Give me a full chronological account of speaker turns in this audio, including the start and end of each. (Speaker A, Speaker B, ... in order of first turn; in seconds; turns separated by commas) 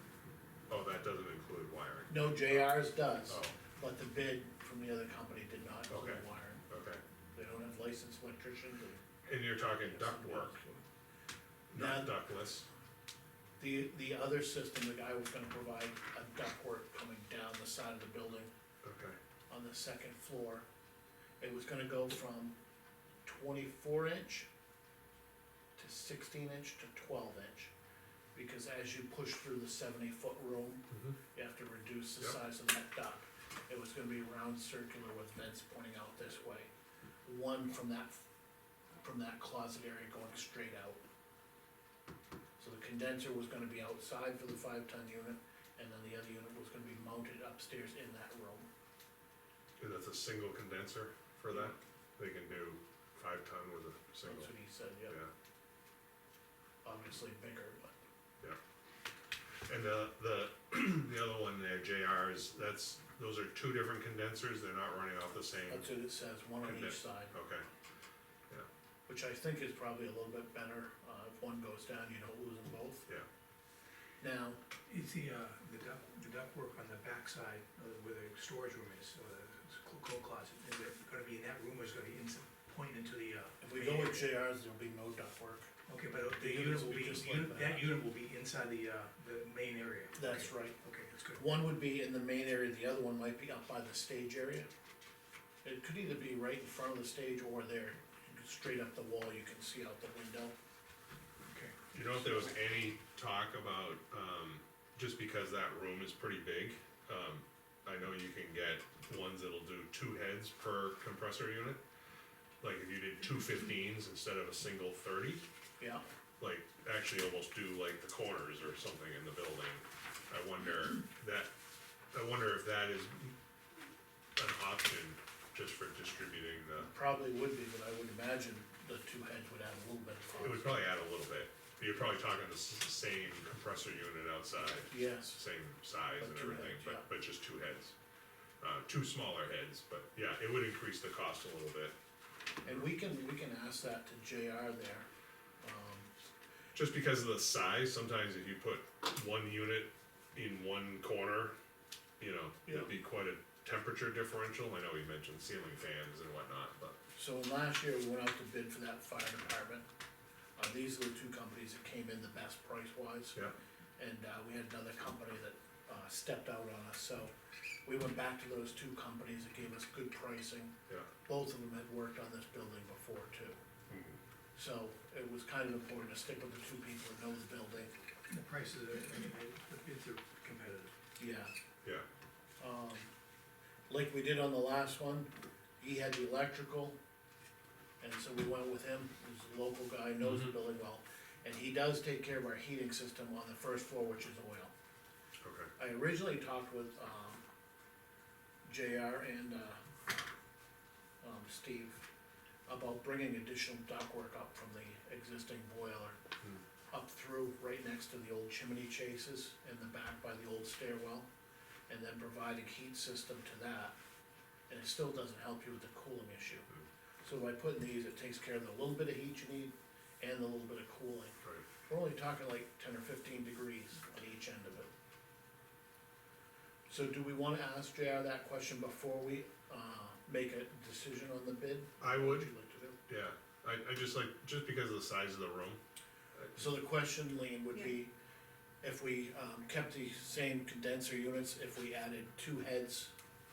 Speaker A: 0.7-3.6, Speaker B: 2.1-6.6, Speaker A: 5.9-7.0, Speaker B: 7.3-9.0, Speaker A: 9.2-10.6, Speaker B: 9.8-10.8, Speaker A: 11.7-12.7, Speaker B: 11.7-12.2, Speaker B: 13.6-18.5, Speaker A: 18.8-19.2, Speaker B: 19.5-20.6, Speaker B: 21.4-22.5, Speaker B: 23.2-24.5, Speaker B: 25.8-27.7, Speaker B: 28.3-36.7, Speaker B: 37.2-38.2, Speaker B: 39.0-41.0, Speaker B: 42.6-48.7, Speaker A: 49.8-54.5, Speaker B: 54.2-55.2, Speaker B: 56.8-58.0, Speaker A: 59.7-65.9, Speaker B: 65.7-67.3, Speaker A: 66.6-67.6, Speaker B: 69.1-73.1, Speaker B: 74.2-74.6, Speaker C: 74.8-84.3, Speaker B: 83.6-85.7, Speaker C: 85.9-91.4, Speaker B: 86.2-87.9, Speaker B: 90.1-90.8, Speaker B: 91.3-94.7, Speaker B: 95.6-100.5, Speaker C: 101.5-101.8, Speaker A: 101.9-111.8, Speaker A: 112.6-115.4, Speaker B: 115.8-116.0, Speaker A: 116.4-121.5, Speaker A: 122.1-123.3, Speaker A: 124.3-126.9, Speaker B: 126.8-130.9, Speaker A: 130.4-137.9, Speaker B: 134.9-135.4, Speaker B: 136.2-137.1, Speaker A: 138.6-141.9, Speaker B: 142.6-145.1, Speaker B: 145.6-146.1, Speaker A: 146.7-151.5, Speaker A: 152.2-157.0, Speaker B: 157.1-159.8, Speaker B: 160.6-163.4, Speaker B: 164.0-167.3, Speaker B: 167.8-170.7, Speaker B: 171.2-173.6, Speaker A: 173.9-174.2, Speaker B: 174.5-177.9, Speaker C: 178.3-180.9, Speaker B: 181.2-181.5, Speaker B: 182.6-183.1, Speaker B: 183.9-187.0, Speaker B: 188.0-194.7, Speaker A: 190.2-190.5, Speaker A: 195.4-195.7, Speaker B: 195.8-197.4, Speaker B: 198.7-199.8, Speaker B: 201.2-202.0, Speaker B: 202.7-206.2, Speaker B: 206.9-211.3, Speaker B: 211.9-213.9, Speaker B: 214.7-216.7, Speaker B: 217.2-224.9, Speaker B: 226.9-233.0, Speaker A: 232.0-232.5, Speaker A: 233.1-235.8, Speaker B: 236.5-238.1, Speaker B: 238.8-243.1